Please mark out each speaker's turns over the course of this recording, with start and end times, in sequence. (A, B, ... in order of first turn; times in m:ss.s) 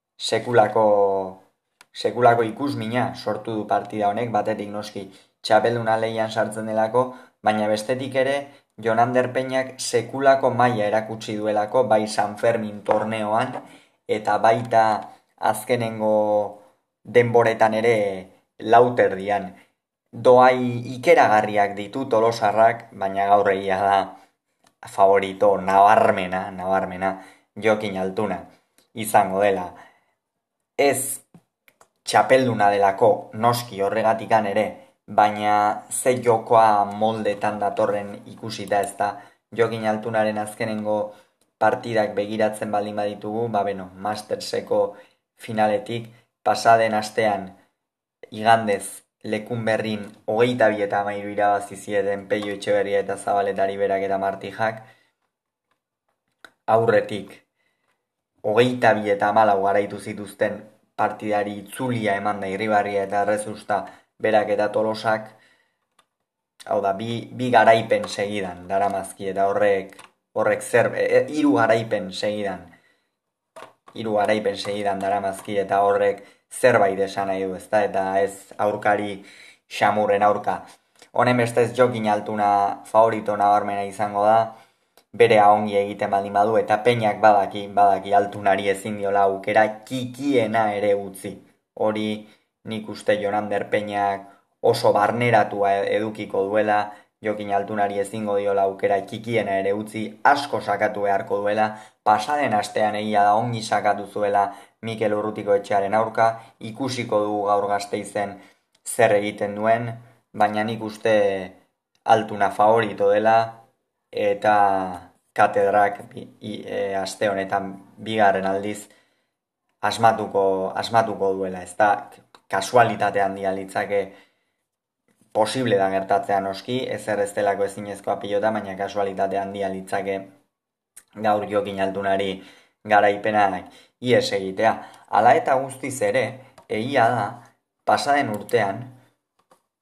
0:00.2-0:19.6 A
0:20.1-0:24.2 A
0:24.8-0:29.8 A
0:30.8-0:31.2 A
0:32.0-0:47.6 A
0:48.3-0:54.9 A
0:56.7-0:57.4 A
0:58.4-1:05.4 A
1:06.7-1:12.8 A
1:13.9-1:24.6 A
1:25.1-1:58.9 A
1:59.8-2:04.2 A
2:05.3-2:10.3 A
2:11.2-2:19.0 A